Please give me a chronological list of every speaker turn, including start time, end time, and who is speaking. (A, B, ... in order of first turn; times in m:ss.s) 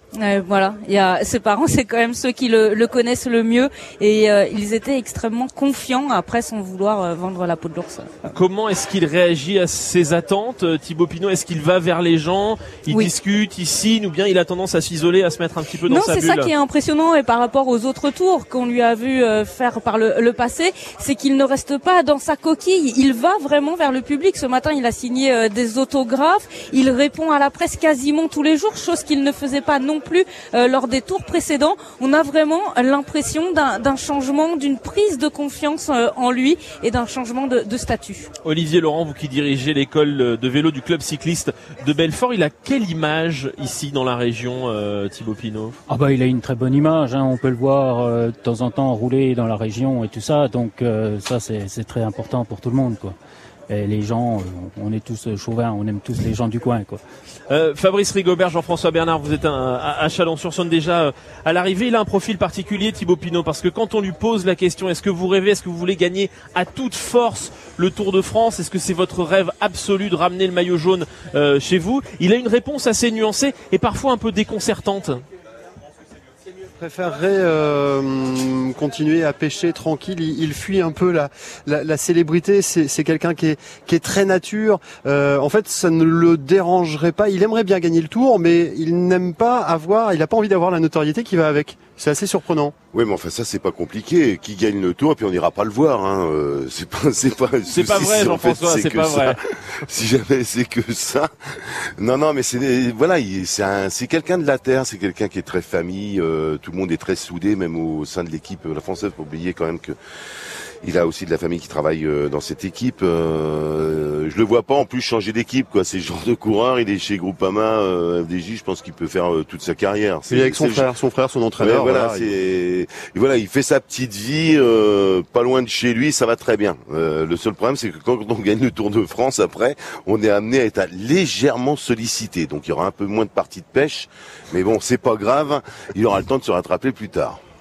0:00.2-0:08.1 A
0:08.3-0:16.5 B
0:15.9-0:38.3 A
0:38.4-0:45.8 B
0:45.9-0:53.2 C
0:53.7-0:57.0 C
0:57.5-1:15.2 B
1:16.8-1:32.8 D
1:32.9-1:50.0 E
1:37.7-1:39.4 B
1:50.8-2:00.9 E
2:00.3-2:02.3 D
2:01.6-2:17.4 E